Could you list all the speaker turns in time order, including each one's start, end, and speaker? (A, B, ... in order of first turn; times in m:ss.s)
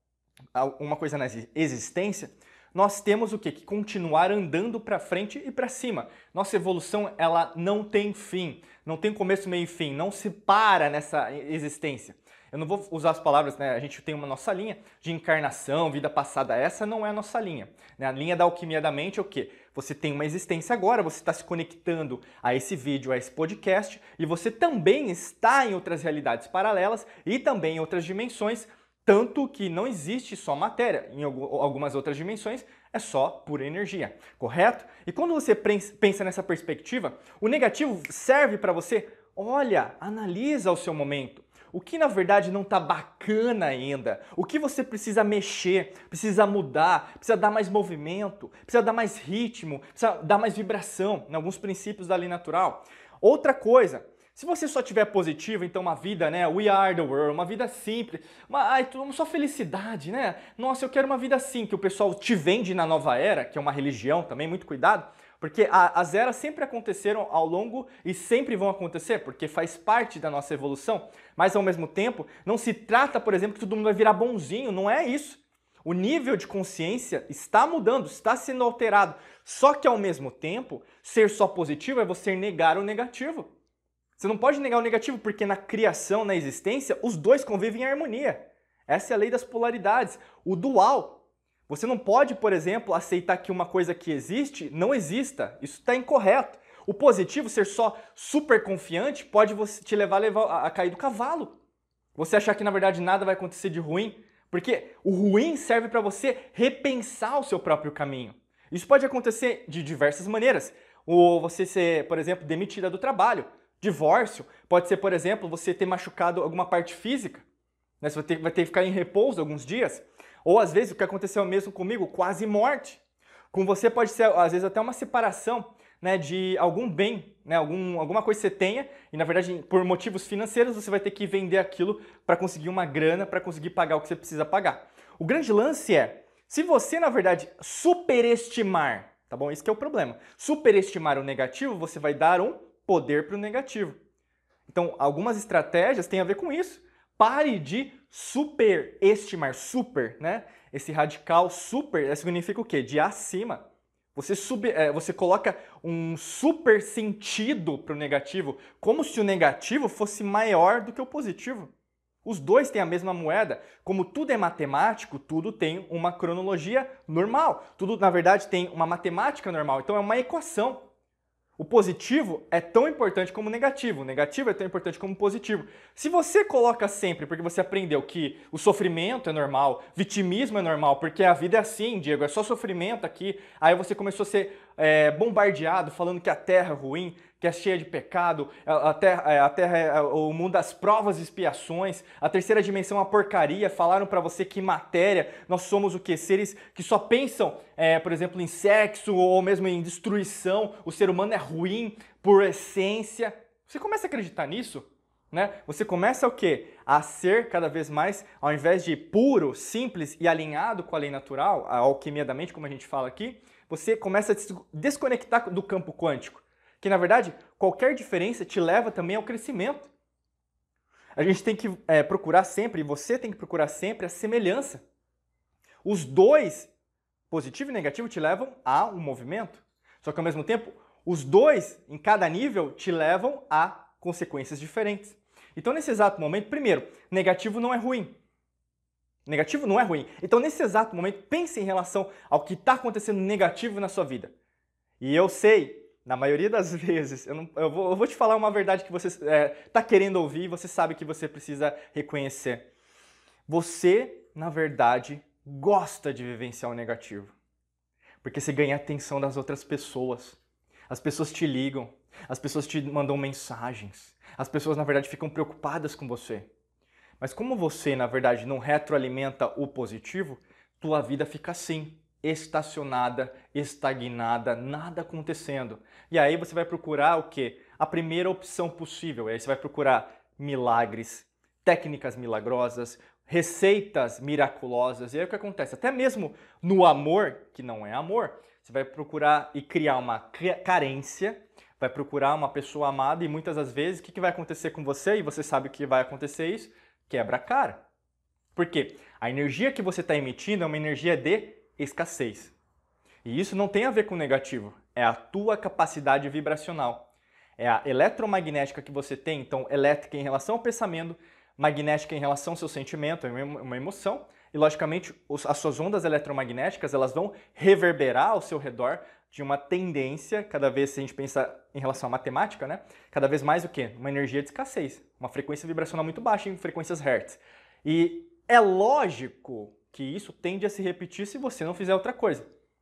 0:00.5-1:23.5 A
1:24.2-1:41.6 A
1:42.2-1:57.5 A
1:58.0-2:24.0 A
2:24.7-2:41.7 A
2:42.2-2:50.9 A
2:51.6-3:39.9 A
3:41.2-3:44.8 A
3:45.8-3:46.7 A
3:47.3-3:58.2 A
3:59.3-4:04.3 A
4:05.0-4:12.7 A
4:13.5-4:17.3 A
4:18.2-4:26.5 A
4:27.2-4:57.8 A
4:58.5-5:02.6 A
5:03.2-5:32.5 A